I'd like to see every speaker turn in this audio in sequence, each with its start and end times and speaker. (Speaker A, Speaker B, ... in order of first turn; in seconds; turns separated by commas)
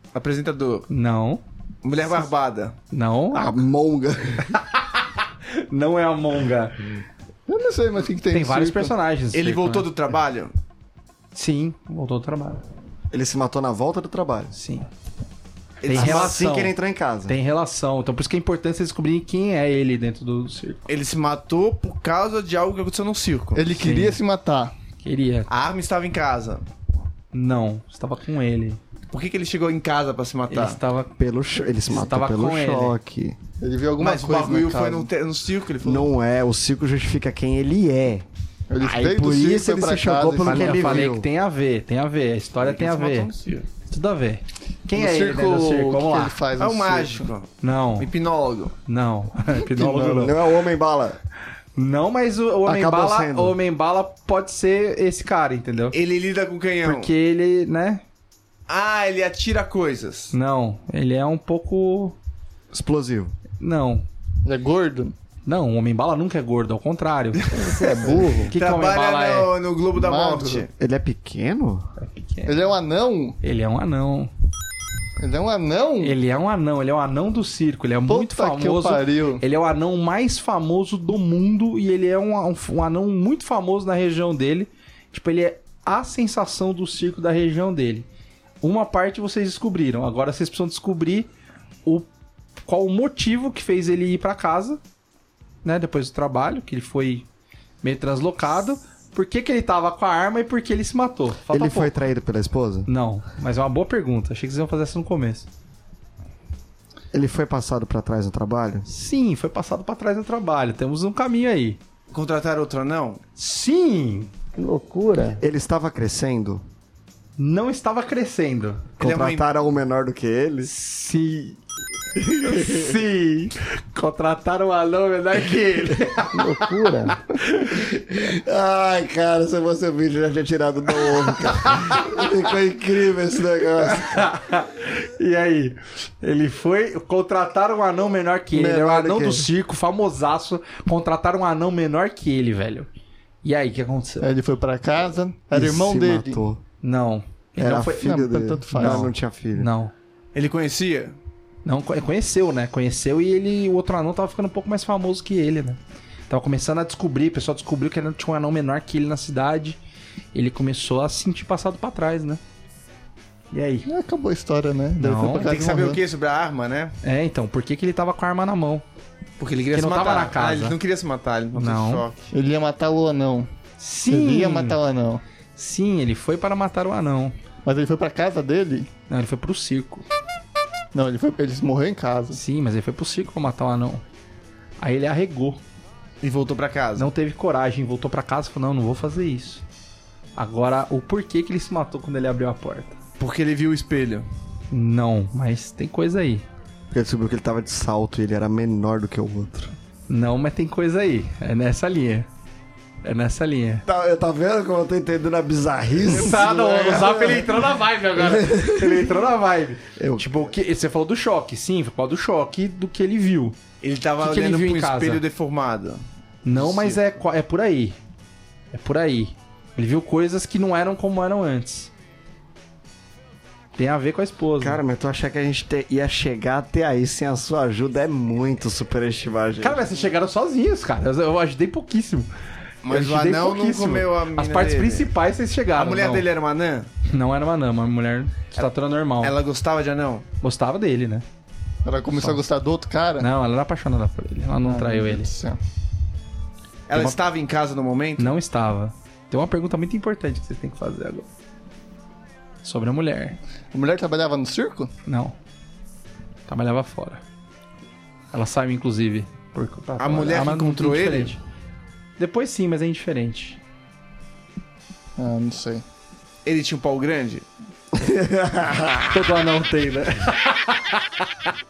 Speaker A: 0.1-0.9, Speaker B: 0.9-1.4, Speaker A: 1.8-2.8, Speaker B: 2.9-3.6, Speaker C: 3.3-4.5, Speaker B: 4.5-6.8, Speaker D: 7.5-8.9, Speaker B: 8.3-9.9, Speaker A: 9.3-10.5, Speaker B: 11.3-12.6, Speaker C: 13.1-14.5, Speaker B: 14.5-14.9, Speaker A: 15.8-16.4, Speaker B: 15.8-16.7, Speaker C: 15.9-17.4, Speaker B: 17.3-20.9, Speaker A: 20.9-23.6, Speaker D: 23.5-24.7, Speaker B: 23.7-24.2, Speaker B: 25.0-25.5, Speaker A: 25.5-26.6, Speaker B: 27.3-28.8, Speaker A: 29.1-30.8, Speaker B: 30.5-31.1, Speaker C: 31.2-33.4, Speaker B: 31.9-33.0, Speaker D: 33.6-35.1, Speaker A: 34.0-36.1, Speaker C: 35.8-38.2, Speaker D: 38.7-41.1, Speaker C: 38.8-41.3, Speaker B: 40.4-43.3, Speaker A: 42.6-43.7, Speaker B: 43.9-46.4, Speaker D: 44.9-47.3, Speaker A: 46.6-48.7, Speaker B: 47.6-48.1, Speaker B: 48.9-50.4, Speaker C: 49.8-51.2, Speaker B: 51.8-56.0, Speaker C: 52.6-53.6, Speaker A: 55.9-57.1, Speaker B: 56.8-58.0, Speaker A: 58.7-60.3, Speaker B: 60.3-62.2, Speaker C: 62.7-63.3, Speaker B: 63.6-64.0, Speaker D: 64.4-65.1, Speaker B: 65.5-67.5, Speaker D: 67.7-68.5, Speaker E: 68.1-68.5, Speaker B: 68.5-69.5, Speaker A: 68.5-70.7, Speaker D: 69.9-70.7, Speaker C: 70.8-71.9, Speaker B: 72.0-72.6, Speaker D: 72.5-73.4, Speaker B: 73.4-74.3, Speaker D: 75.2-76.2, Speaker B: 76.0-88.1, Speaker D: 78.1-79.4, Speaker B: 88.6-91.3, Speaker B: 92.7-94.8, Speaker B: 95.6-97.2, Speaker B: 97.8-102.0, Speaker C: 101.5-102.9, Speaker B: 102.8-105.5, Speaker C: 107.1-108.9, Speaker B: 108.9-111.8, Speaker A: 112.1-113.2, Speaker B: 113.4-114.3, Speaker E: 114.5-115.4, Speaker C: 115.4-116.6, Speaker B: 117.4-118.8, Speaker C: 119.0-120.7, Speaker A: 119.0-119.5, Speaker B: 120.6-121.6, Speaker C: 122.2-123.0, Speaker B: 122.4-126.5, Speaker E: 126.4-127.1, Speaker C: 126.4-127.1, Speaker B: 127.3-127.8, Speaker C: 127.7-134.3, Speaker B: 131.7-131.9, Speaker B: 133.8-142.9, Speaker C: 138.5-139.5, Speaker B: 143.4-144.3, Speaker D: 144.2-146.4, Speaker C: 145.5-146.6, Speaker B: 146.8-149.9, Speaker C: 147.6-149.7, Speaker D: 148.1-149.1, Speaker A: 150.3-151.2, Speaker B: 151.6-159.8, Speaker B: 160.3-162.4, Speaker B: 163.5-163.9, Speaker D: 163.9-166.0, Speaker B: 165.0-165.5, Speaker A: 165.4-166.9, Speaker B: 167.0-168.8, Speaker A: 169.4-172.3, Speaker B: 169.7-170.8, Speaker B: 171.6-172.0, Speaker D: 172.3-173.5, Speaker B: 173.8-174.8, Speaker D: 174.1-175.2, Speaker B: 175.6-177.3, Speaker D: 177.6-178.9, Speaker B: 179.1-180.0, Speaker D: 180.9-182.4, Speaker B: 182.3-184.0, Speaker B: 184.8-185.6, Speaker A: 186.2-187.1, Speaker B: 187.0-189.6, Speaker B: 190.3-193.0, Speaker A: 193.2-194.2, Speaker B: 194.7-196.4, Speaker C: 196.9-199.7, Speaker B: 200.1-202.3, Speaker B: 203.0-203.8, Speaker C: 203.8-207.6, Speaker B: 206.1-213.6, Speaker A: 206.3-207.3, Speaker C: 208.1-209.1, Speaker C: 210.0-210.3, Speaker A: 213.8-216.0, Speaker B: 214.2-215.2, Speaker B: 216.4-218.0, Speaker A: 216.5-217.0, Speaker B: 218.7-221.9, Speaker B: 223.8-224.8, Speaker C: 224.6-229.9, Speaker B: 229.6-232.3, Speaker A: 232.8-235.1, Speaker B: 232.9-236.3, Speaker A: 235.8-236.9, Speaker B: 237.0-239.3, Speaker A: 239.2-240.2, Speaker B: 240.4-241.2, Speaker D: 241.8-243.3, Speaker B: 242.1-242.4, Speaker B: 243.2-245.3, Speaker D: 244.6-245.6, Speaker A: 246.9-248.3, Speaker B: 246.9-247.2, Speaker B: 248.2-251.3, Speaker B: 252.6-253.4, Speaker D: 253.7-254.9, Speaker B: 255.1-255.3, Speaker B: 256.5-257.2, Speaker B: 258.3-261.4, Speaker A: 260.0-261.4, Speaker B: 262.2-263.6, Speaker D: 265.2-265.8, Speaker A: 266.4-267.4, Speaker C: 267.9-269.4, Speaker B: 269.1-271.5